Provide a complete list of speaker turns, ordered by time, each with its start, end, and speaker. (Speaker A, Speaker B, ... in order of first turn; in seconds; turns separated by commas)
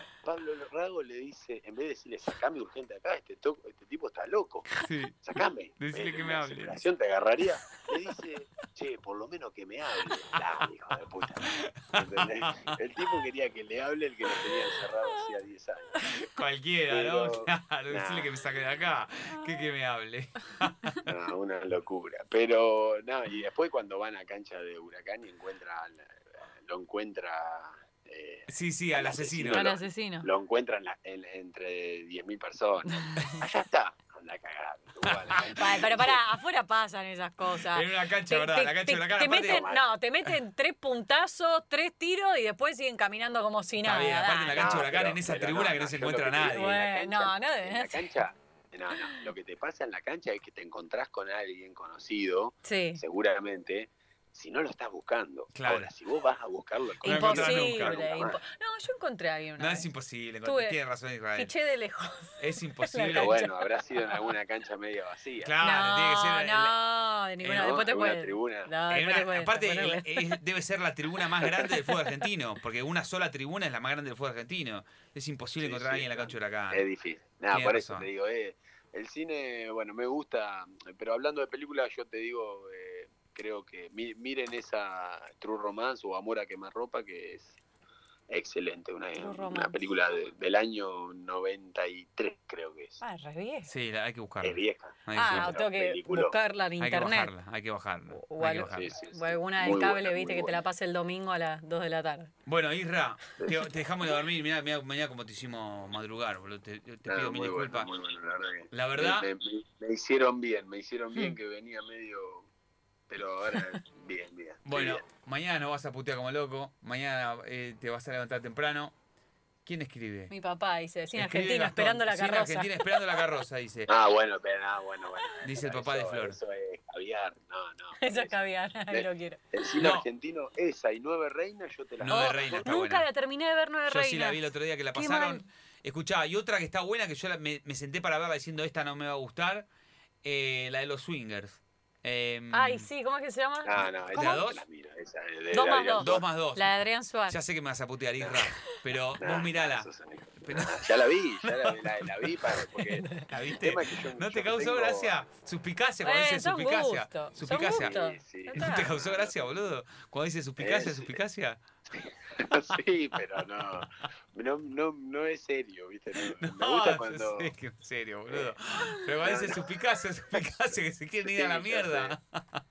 Speaker A: 0.2-16.0, Speaker B: 4.8-5.2, Speaker B: 5.8-6.8, Speaker B: 11.3-12.8, Speaker B: 16.1-21.0, Speaker A: 16.9-18.3, Speaker A: 21.0-36.2, Speaker B: 28.5-29.7, Speaker C: 29.5-30.3, Speaker C: 32.9-33.4, Speaker B: 35.0-35.4, Speaker C: 35.5-44.8, Speaker B: 37.7-40.3, Speaker A: 39.4-39.9, Speaker B: 43.8-46.6, Speaker A: 44.5-58.4, Speaker C: 46.5-48.2, Speaker C: 52.6-53.0, Speaker B: 55.5-55.9, Speaker B: 57.0-58.0, Speaker C: 57.0-59.9, Speaker B: 59.6-61.5, Speaker C: 60.4-60.8, Speaker C: 61.4-64.3, Speaker B: 62.4-63.4, Speaker A: 63.1-65.5, Speaker B: 65.4-66.7, Speaker C: 65.6-70.3, Speaker B: 67.4-67.7, Speaker A: 67.4-68.7, Speaker B: 68.9-76.8, Speaker C: 71.7-72.2, Speaker A: 75.6-87.6, Speaker B: 77.5-78.1, Speaker A: 88.3-93.0, Speaker C: 89.2-89.8, Speaker C: 93.0-93.7, Speaker B: 93.7-95.5, Speaker A: 94.4-96.3, Speaker C: 95.1-97.3, Speaker B: 96.8-98.9, Speaker C: 98.1-102.3, Speaker A: 98.6-100.6, Speaker B: 102.5-107.9, Speaker A: 107.0-112.5, Speaker B: 108.7-109.3, Speaker A: 113.1-115.0, Speaker B: 114.6-118.9, Speaker B: 119.7-120.3, Speaker C: 120.3-122.8, Speaker B: 121.1-123.9, Speaker A: 123.9-128.4, Speaker B: 125.4-126.4, Speaker C: 128.0-129.8, Speaker A: 128.9-132.7, Speaker B: 129.8-130.1, Speaker B: 132.0-133.0, Speaker C: 132.1-134.4, Speaker B: 133.8-139.7, Speaker C: 134.9-135.4, Speaker B: 140.2-142.9, Speaker C: 142.5-144.4, Speaker A: 143.6-146.2, Speaker B: 144.1-144.6, Speaker C: 145.5-147.3, Speaker B: 146.0-146.7, Speaker B: 147.3-149.9, Speaker A: 148.2-148.5, Speaker A: 149.2-155.2, Speaker B: 150.4-158.0, Speaker C: 153.0-153.2, Speaker C: 156.0-158.9, Speaker A: 157.7-159.7, Speaker B: 158.6-161.6, Speaker A: 160.6-161.2, Speaker A: 161.9-167.5, Speaker B: 163.7-164.0, Speaker B: 166.2-172.6, Speaker A: 169.2-169.6, Speaker A: 170.3-172.2